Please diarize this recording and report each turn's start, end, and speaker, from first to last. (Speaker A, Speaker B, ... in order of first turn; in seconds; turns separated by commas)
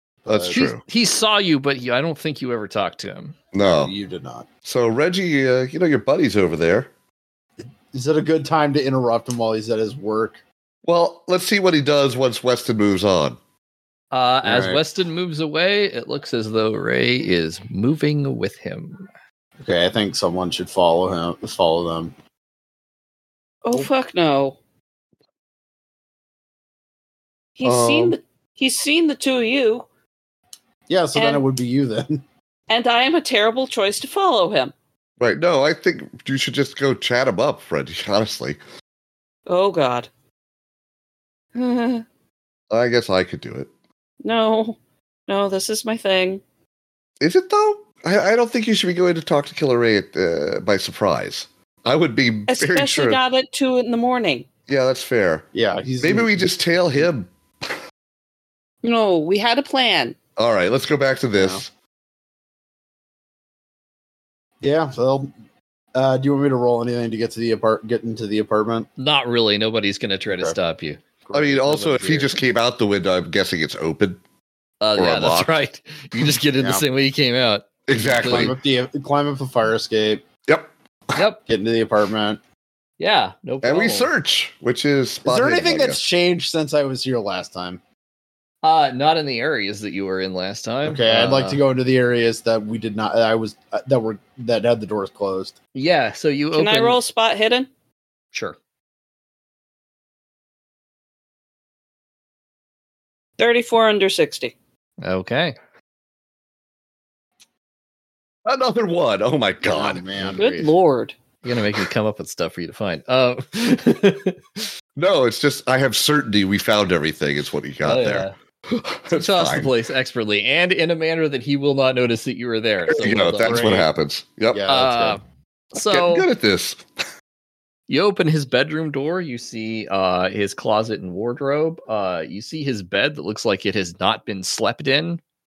Speaker A: 0.2-0.6, Speaker B: 0.3-0.8, Speaker C: 0.5-3.4, Speaker B: 3.5-3.9, Speaker A: 3.6-4.5, Speaker B: 4.6-6.9, Speaker A: 7.9-10.4, Speaker B: 10.8-13.4, Speaker C: 14.1-19.1, Speaker A: 14.4-14.8, Speaker A: 19.6-22.1, Speaker D: 23.6-24.6, Speaker D: 27.6-29.9, Speaker B: 27.6-28.2, Speaker A: 30.9-32.2, Speaker D: 31.1-31.4, Speaker D: 32.7-34.7, Speaker B: 35.2-38.6, Speaker D: 39.5-40.1, Speaker D: 41.5-42.0, Speaker B: 42.7-43.7, Speaker D: 44.2-46.4, Speaker B: 47.2-53.2, Speaker D: 52.5-54.5, Speaker B: 54.7-55.5, Speaker A: 55.5-56.5, Speaker B: 56.0-57.3, Speaker D: 58.8-60.2, Speaker B: 60.4-61.7, Speaker A: 61.4-61.6, Speaker A: 64.6-65.3, Speaker A: 65.9-68.9, Speaker C: 69.0-71.0, Speaker A: 71.3-72.3, Speaker B: 71.3-74.2, Speaker C: 74.8-78.5, Speaker B: 75.0-75.5, Speaker A: 76.6-76.8, Speaker B: 77.9-78.5, Speaker A: 78.2-80.2, Speaker B: 80.5-81.2, Speaker C: 81.1-81.4, Speaker A: 81.5-82.4, Speaker C: 83.0-84.1, Speaker B: 83.6-86.0, Speaker A: 85.2-87.8, Speaker C: 88.6-91.6, Speaker A: 90.8-95.5, Speaker C: 95.7-97.0, Speaker D: 96.5-97.7, Speaker D: 103.4-104.5, Speaker C: 105.0-105.5, Speaker B: 108.4-110.0, Speaker A: 109.6-110.5, Speaker C: 110.2-110.7, Speaker D: 110.4-111.1, Speaker C: 111.4-114.7, Speaker B: 115.0-119.7, Speaker C: 117.8-118.3, Speaker C: 119.1-123.8, Speaker B: 122.9-124.7, Speaker A: 123.4-123.9, Speaker A: 124.5-125.2, Speaker C: 124.7-125.2, Speaker C: 125.7-126.3, Speaker B: 125.8-126.8, Speaker C: 127.9-135.2